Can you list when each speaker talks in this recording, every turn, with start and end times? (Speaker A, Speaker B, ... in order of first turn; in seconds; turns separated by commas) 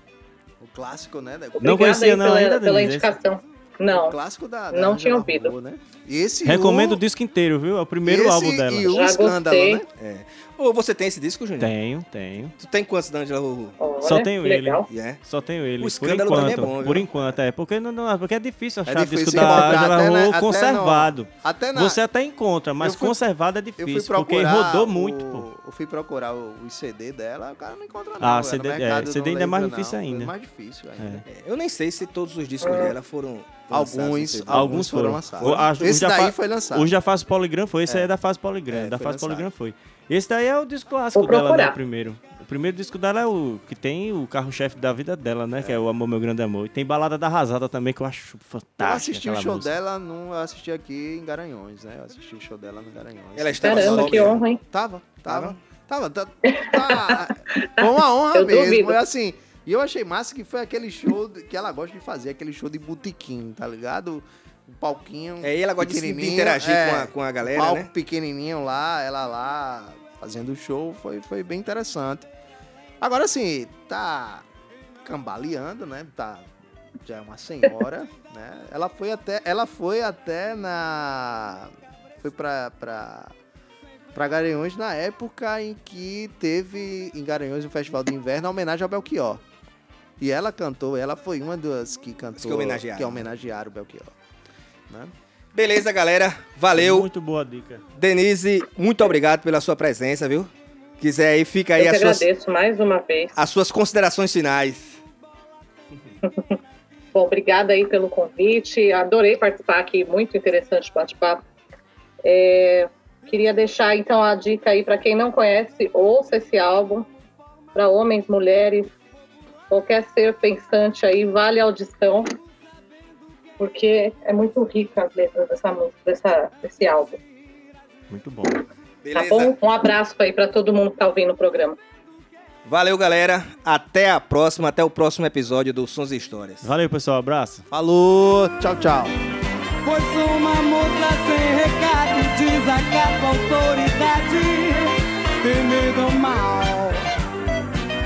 Speaker A: 0.6-1.8, Speaker B: 1.6-4.2, Speaker C: 1.6-3.1, Speaker A: 3.9-7.0, Speaker B: 4.7-5.5, Speaker C: 6.4-8.9, Speaker A: 8.0-9.9, Speaker B: 8.9-9.8, Speaker D: 10.0-11.7, Speaker C: 11.6-12.5, Speaker D: 12.6-13.8, Speaker B: 13.8-14.9, Speaker C: 14.0-25.4, Speaker D: 14.9-15.2, Speaker D: 15.8-17.2, Speaker A: 18.8-22.0, Speaker A: 22.8-23.2, Speaker A: 23.8-31.2, Speaker C: 28.2-30.3, Speaker C: 31.0-31.2, Speaker D: 31.3-35.7, Speaker B: 32.6-32.9, Speaker A: 33.7-36.9, Speaker C: 34.5-49.7, Speaker A: 38.7-39.5, Speaker B: 41.1-41.8, Speaker A: 48.8-72.3, Speaker D: 53.4-54.4, Speaker B: 53.6-54.6, Speaker D: 55.2-55.6, Speaker B: 56.5-59.0, Speaker D: 65.4-67.9, Speaker A: 73.0-74.4, Speaker A: 75.0-76.5, Speaker A: 77.0-83.3, Speaker A: 84.1-89.4, Speaker A: 90.2-94.1, Speaker D: 92.4-93.2, Speaker D: 95.5-97.1, Speaker C: 96.8-97.8, Speaker D: 98.0-102.2, Speaker B: 101.8-103.3, Speaker D: 103.3-105.0, Speaker B: 106.2-106.6, Speaker B: 107.1-111.4, Speaker B: 112.2-117.1, Speaker B: 117.7-118.9, Speaker B: 119.7-122.3, Speaker B: 123.6-127.2, Speaker C: 128.1-128.6, Speaker D: 129.0-129.5, Speaker B: 129.1-131.8, Speaker D: 132.6-136.7, Speaker C: 136.6-137.6, Speaker A: 137.7-139.1, Speaker E: 139.8-147.0